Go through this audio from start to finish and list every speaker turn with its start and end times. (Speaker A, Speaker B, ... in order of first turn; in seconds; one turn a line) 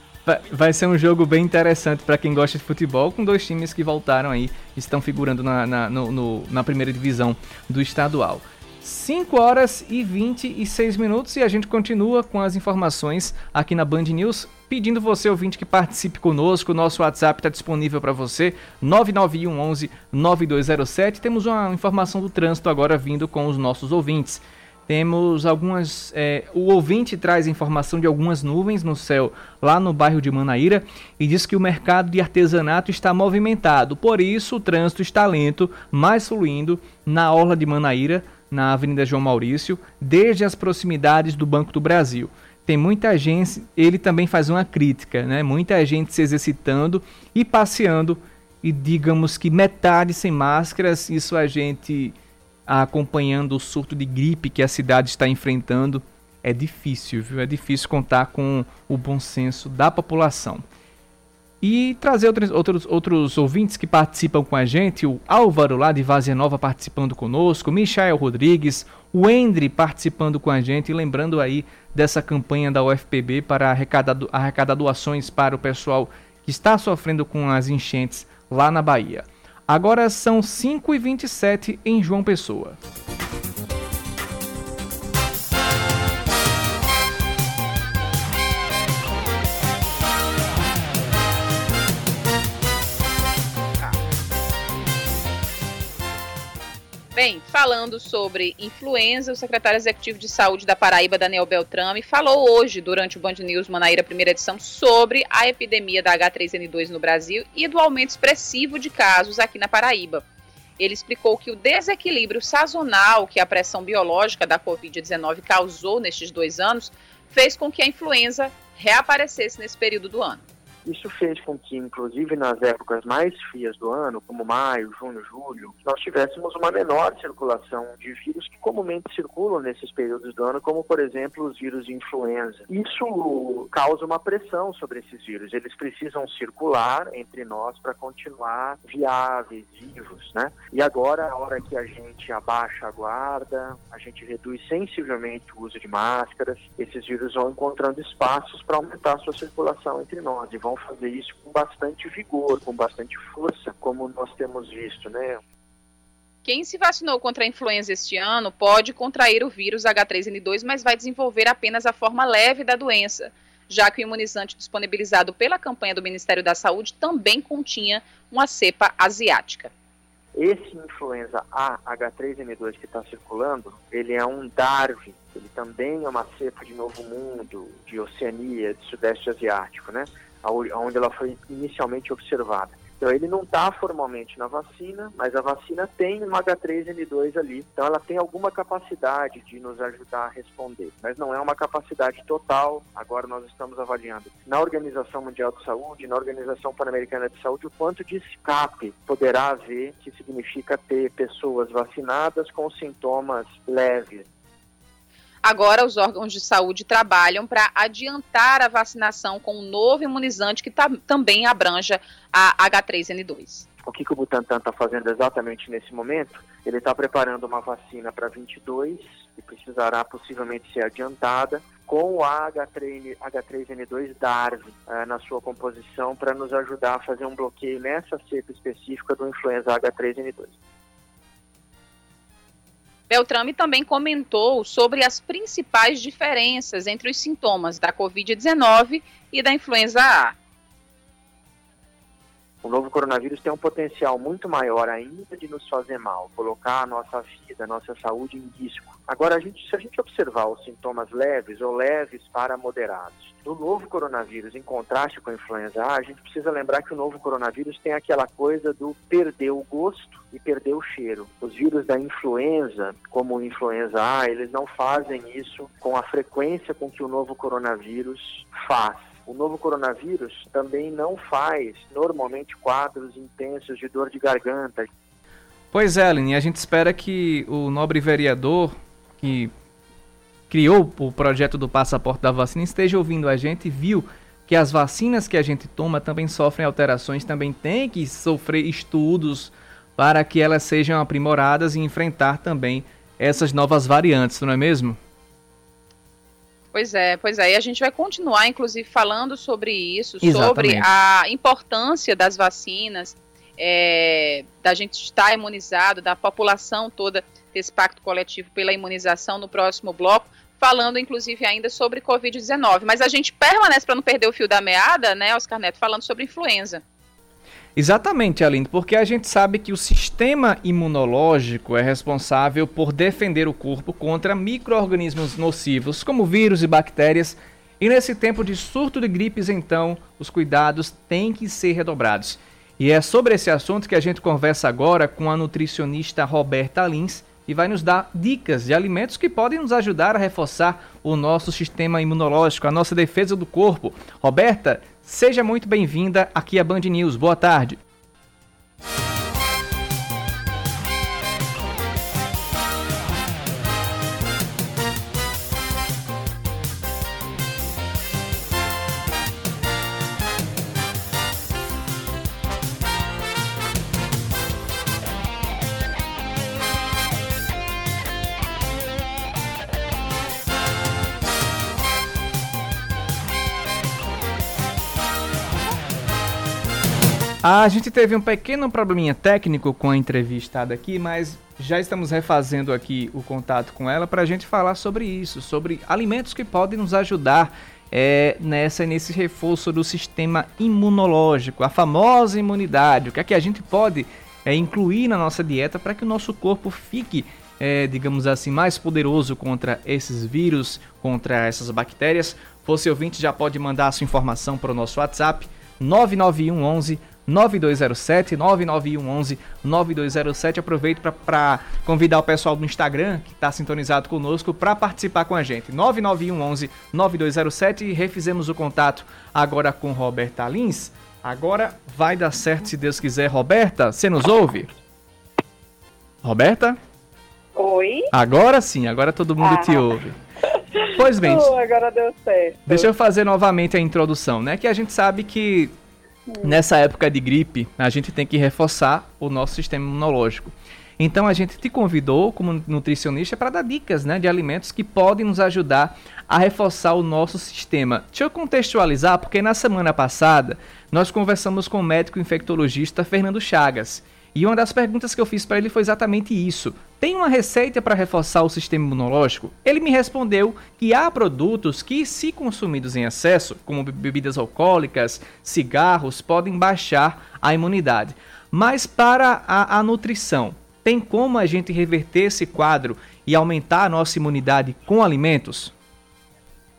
Speaker A: 0.3-52.1
Speaker A: 52.7-60.6
Speaker A: 61.6-82.8
Speaker B: 97.2-110.2
Speaker B: 110.8-120.4
Speaker C: 120.8-155.4
Speaker B: 156.4-169.7
Speaker C: 170.4-204.3
Speaker B: 205.4-213.7
Speaker C: 213.9-230.6
Speaker B: 233.1-240.3
Speaker C: 242.6-274.9
Speaker A: 275.7-279.5
Speaker A: 280.5-295.0
Speaker B: 296.7-316.8
Speaker A: 300.2-300.9
Speaker A: 317.8-347.8
Speaker A: 377.4-424.7
Speaker A: 426.2-426.8
Speaker D: 427.6-428.1
Speaker A: 428.1-430.2
Speaker D: 429.4-429.9
Speaker D: 430.8-432.9
Speaker A: 430.9-431.5
Speaker A: 432.7-435.7
Speaker D: 436.3-436.6
Speaker A: 436.4-475.7